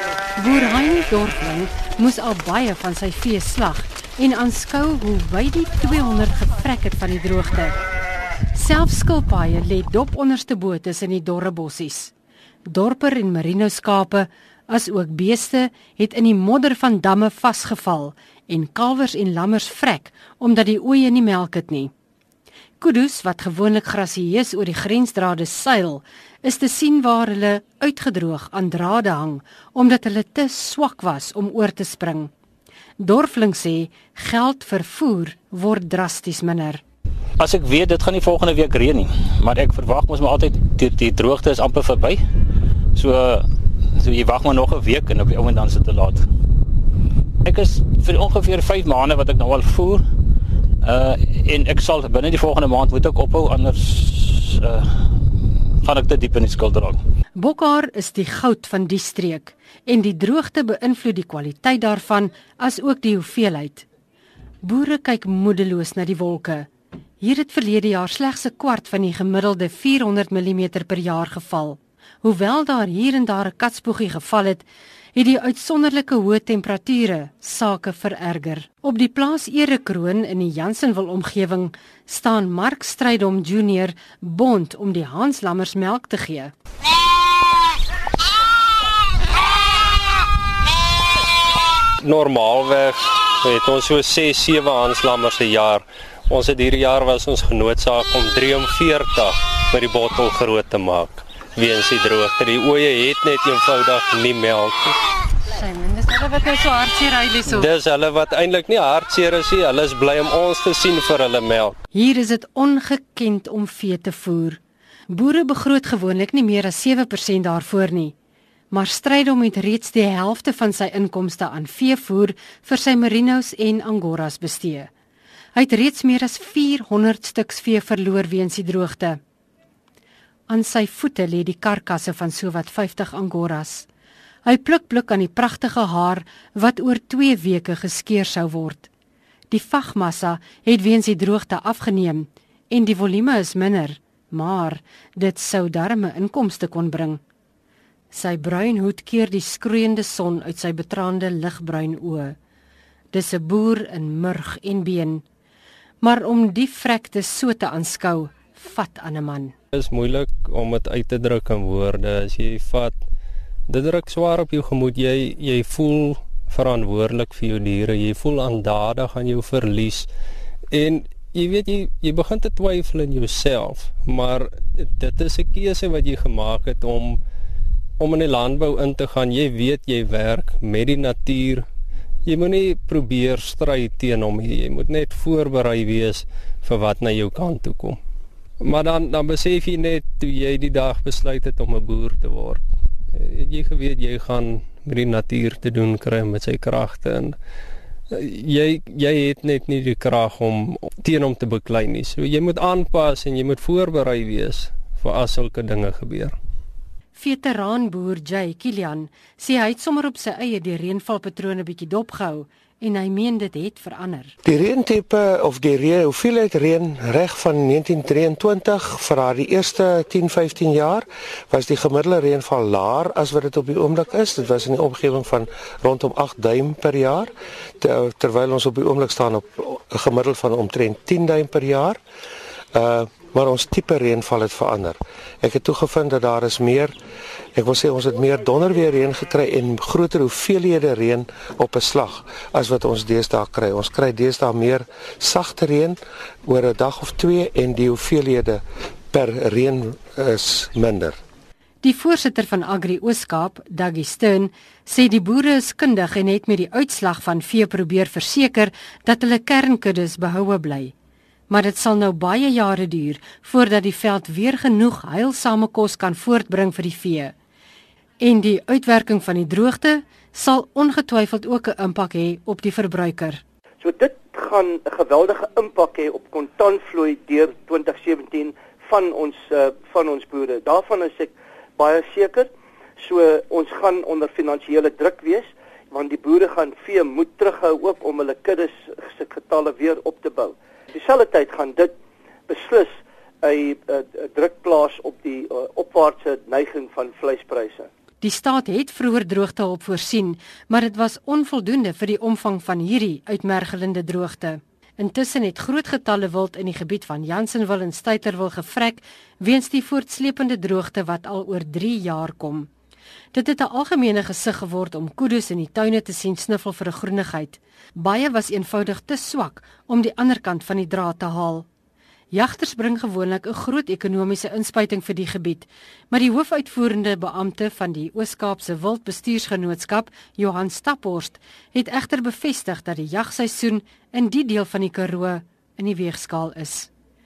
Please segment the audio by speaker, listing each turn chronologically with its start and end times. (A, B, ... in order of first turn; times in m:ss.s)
0:00.4-0:07.7 A
0:08.5-0:12.1 A
0:12.7-0:21.9 A
0:22.8-0:32.3 A
0:33.0-0:36.8 A
0:37.4-0:42.2 B
0:42.9-0:46.3 B
0:47.4-0:50.0 B
0:50.8-0:55.1 B
0:55.8-0:57.0 B
0:57.3-1:03.8 A
1:04.6-1:06.7 A
1:07.2-1:26.5 A
1:32.0-1:45.0 C
1:45.5-1:47.7 A
1:47.5-1:51.8 C
1:51.9-1:58.1 A
1:58.7-2:04.9 A
2:05.5-2:09.2 A
2:10.5-2:13.9 A
2:14.4-2:18.9 A
2:19.5-2:27.2 A
2:28.1-2:32.4 A
2:33.1-2:35.2 A
2:36.0-2:39.5 A
2:39.7-2:43.0 C
2:43.7-2:50.1 C
2:50.7-2:57.2 C
2:58.0-3:01.6 C
3:02.2-3:08.0 C
3:08.6-3:17.4 C
3:18.1-3:26.3 C
3:27.1-3:34.3 A
3:34.4-3:52.0 D
3:52.7-3:56.9 D
3:57.6-4:11.2 D
4:11.8-4:20.9 A
4:21.5-4:27.3 A
4:28.2-4:33.4 A
4:33.8-4:42.5 E
4:43.0-4:51.9 E
4:52.5-4:57.9 E
4:58.2-5:12.7 A
5:13.3-5:21.6 A
5:22.3-5:36.9 A